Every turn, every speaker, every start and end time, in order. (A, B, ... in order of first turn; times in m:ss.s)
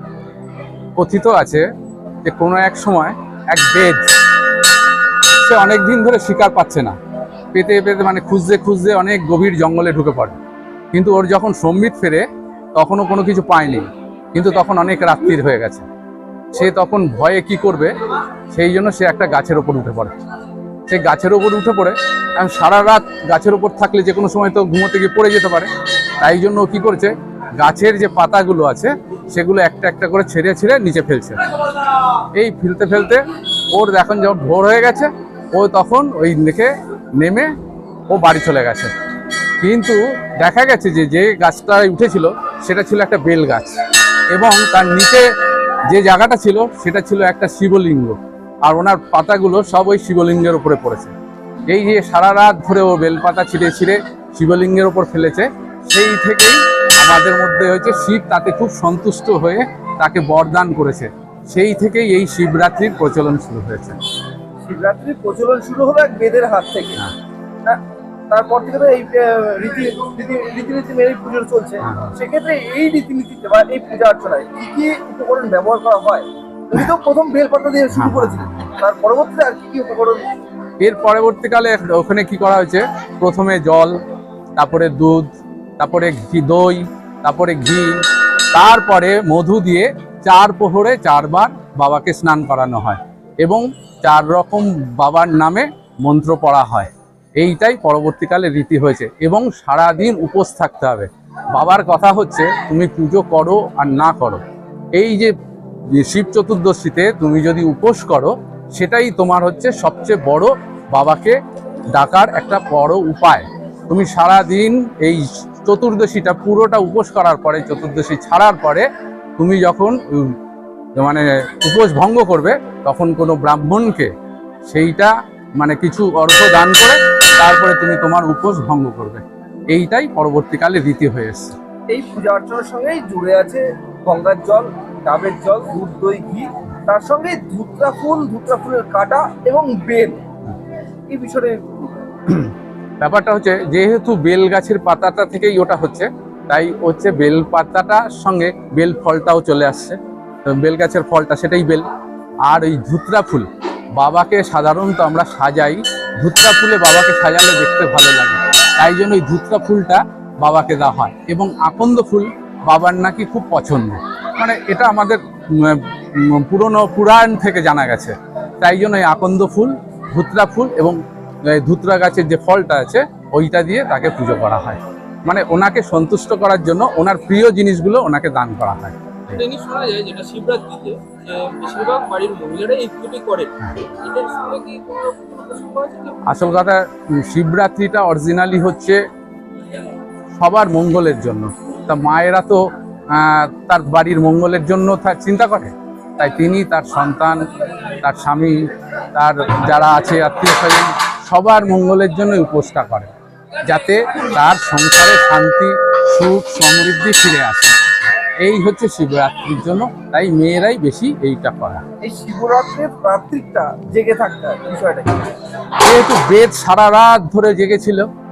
0:01.0-0:01.6 A
0:02.2-0:04.1 A
0:05.4-0:06.9 A
0:07.5-0:10.4 A
0:10.9-0:15.9 A
0:16.5-0:18.0 A
0:18.5-0:20.1 A
0:20.9-0:37.5 A
0:38.1-0:38.9 A
0:39.6-0:43.8 A
0:44.3-0:45.2 A
0:45.9-0:51.1 A
0:51.7-1:04.0 A
1:04.6-1:07.0 B
1:08.3-1:20.2 B
1:11.8-1:12.1 A
1:17.9-1:18.7 A
1:20.8-1:23.9 A
1:24.6-1:44.4 A
1:44.9-1:45.3 A
1:45.9-1:51.4 A
1:51.9-1:58.9 A
1:59.4-2:00.4 A
2:01.0-2:04.1 A
2:04.7-2:11.6 A
2:11.9-2:20.2 B
2:21.1-2:22.0 B
2:22.3-2:31.9 A
2:32.5-2:59.4 A
2:59.4-3:06.2 C
3:06.2-3:09.0 A
3:10.4-3:27.8 A
3:28.4-3:31.8 A
3:32.0-3:35.2 B
3:35.8-3:38.1 A